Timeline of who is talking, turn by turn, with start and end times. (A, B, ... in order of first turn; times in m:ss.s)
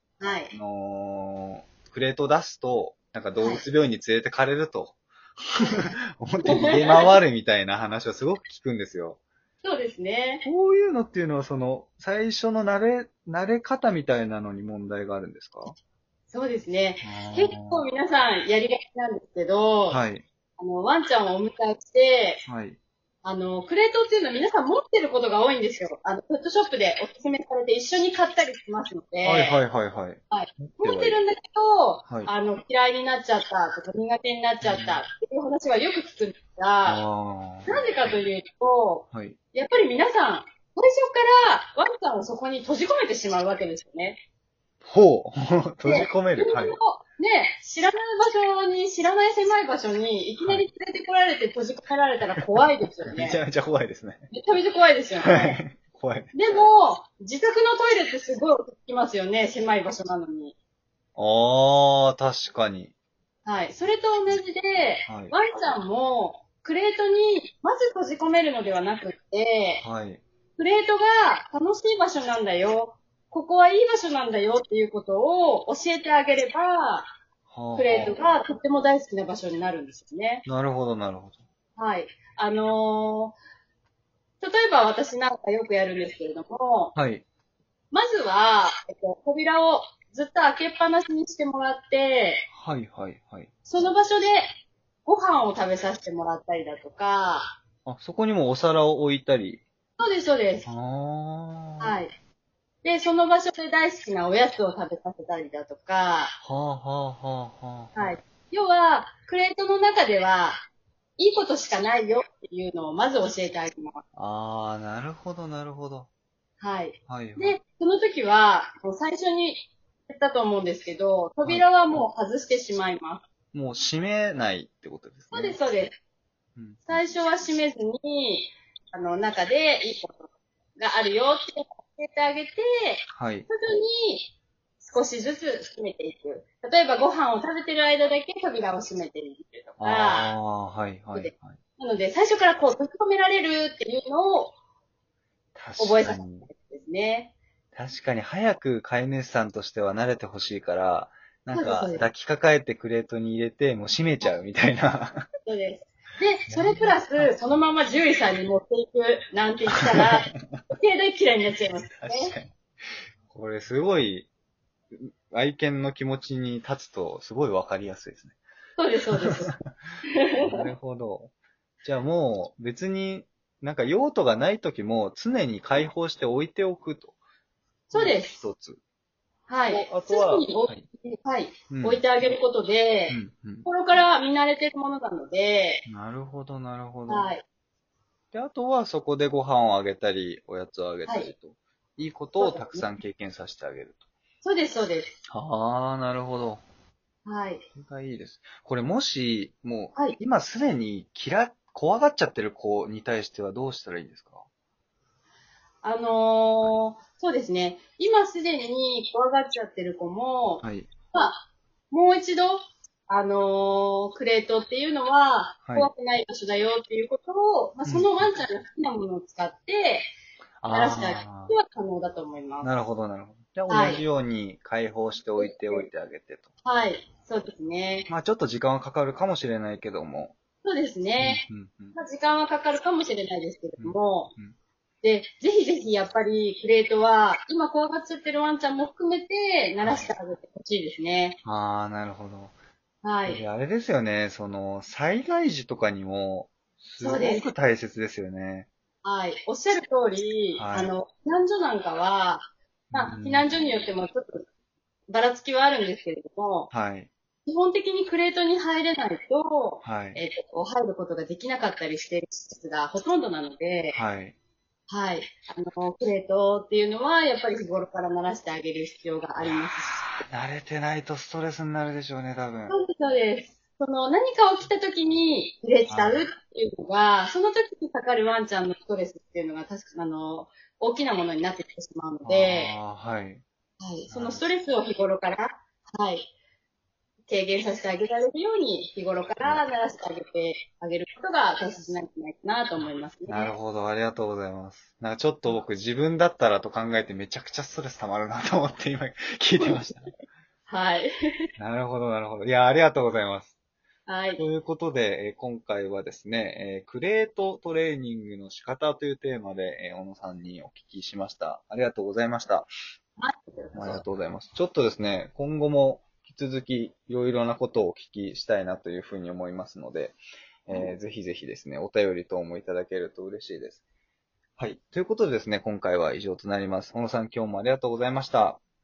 0:00.2-0:00.5 A
0:00.5-0:09.2 B
0:05.6-0:05.9 A
0:06.4-0:07.1 A
0:09.6-0:10.4 A
0:10.4-0:15.7 B
0:16.3-0:20.0 A
0:17.0-0:17.9 B
0:19.9-0:20.2 B
0:20.6-0:22.4 A
0:22.5-0:22.8 B
0:23.2-0:29.6 A
0:29.2-0:31.2 B
0:30.3-0:37.0 A
0:34.6-0:35.0 B
0:36.8-0:38.1 B
0:37.7-0:44.2 A
0:44.8-0:46.8 B
0:45.8-0:53.4 A
0:52.6-0:54.2 B
0:54.3-0:55.6 A
0:55.2-0:56.3 B
0:56.3-1:00.5 A
1:01.2-1:02.9 B
1:03.4-1:09.8 A
1:05.1-1:05.3 B
1:09.8-1:10.2 B
1:10.6-1:17.1 A
1:17.5-1:18.2 B
1:17.7-1:20.4 A
1:20.4-1:21.4 B
1:21.8-1:23.4 A
1:24.4-1:26.9 A
1:26.9-1:27.2 B
1:27.9-1:32.4 A
1:32.5-1:33.5 B
1:33.6-1:34.5 A
1:35.0-1:37.6 A
1:37.8-1:39.6 B
1:40.0-1:40.7 A
1:40.6-1:42.0 B
1:41.8-1:42.1 A
1:42.8-1:46.4 A
1:46.4-1:48.2 B
1:47.9-1:50.6 A
1:51.2-1:54.0 A
1:54.2-1:56.1 B
1:56.6-2:03.2 A
1:57.1-1:57.6 B
2:01.4-2:02.0 B
2:03.5-2:05.6 B
2:05.3-2:06.0 A
2:06.6-2:07.0 B
2:06.9-2:20.3 A
2:13.1-2:13.5 B
2:19.8-2:21.5 B
2:21.1-2:24.5 A
2:25.5-2:26.5 B
2:25.8-2:27.3 A
2:27.7-2:35.2 B
2:31.5-2:32.0 A
2:35.4-2:42.4 A
2:36.5-2:37.4 B
2:39.7-2:40.6 B
2:42.0-2:42.5 B
2:43.3-2:44.3 B
2:44.9-2:48.3 B
2:48.8-2:49.5 A
2:49.2-2:49.7 B
2:50.1-2:50.6 A
2:50.4-2:51.3 B
2:51.8-2:57.1 B
2:57.9-2:58.4 A
2:57.9-2:58.8 B
2:59.5-3:05.8 A
2:59.7-3:00.9 B
3:01.7-3:02.0 B
3:03.1-3:03.7 B
3:05.8-3:07.3 B
3:07.1-3:07.4 A
3:08.3-3:14.0 B
3:11.0-3:11.3 A
3:12.4-3:12.8 A
3:14.4-3:15.1 A
3:15.3-3:16.6 B
3:17.2-3:17.6 A
3:17.7-3:24.4 B
3:25.8-3:40.1 A
3:30.6-3:30.9 B
3:35.6-3:35.9 B
3:37.8-3:38.3 B
3:40.6-3:41.5 B
3:40.7-3:42.7 A
3:42.6-3:46.5 B
3:43.7-3:44.0 A
3:45.4-3:45.9 A
3:46.6-3:48.1 A
3:48.1-3:50.3 B
3:50.6-3:54.3 A
3:51.2-3:51.9 B
3:53.8-3:54.5 B
3:55.0-4:01.4 A
3:59.8-4:00.1 B
4:01.4-4:02.5 B
4:03.0-4:03.4 A
4:03.2-4:08.7 B
4:07.0-4:07.4 A
4:09.0-4:14.5 A
4:10.6-4:10.9 B
4:12.9-4:13.7 B
4:15.1-4:16.7 A
4:16.7-4:17.1 B
4:17.4-4:24.0 A
4:19.8-4:20.2 B
4:23.9-4:24.3 B
4:24.9-4:30.2 A
4:29.4-4:32.8 B
4:32.7-4:42.7 A
4:35.9-4:36.3 B
4:42.2-4:43.4 B
4:43.8-4:46.3 A
4:44.1-4:44.4 B
4:47.3-4:53.5 A
4:53.3-5:00.2 B
5:00.7-5:01.1 A
5:01.6-5:03.5 B
5:04.1-5:04.4 A
5:04.4-5:12.7 B
5:13.2-5:14.0 A
5:13.7-5:23.8 B
5:24.6-5:28.6 B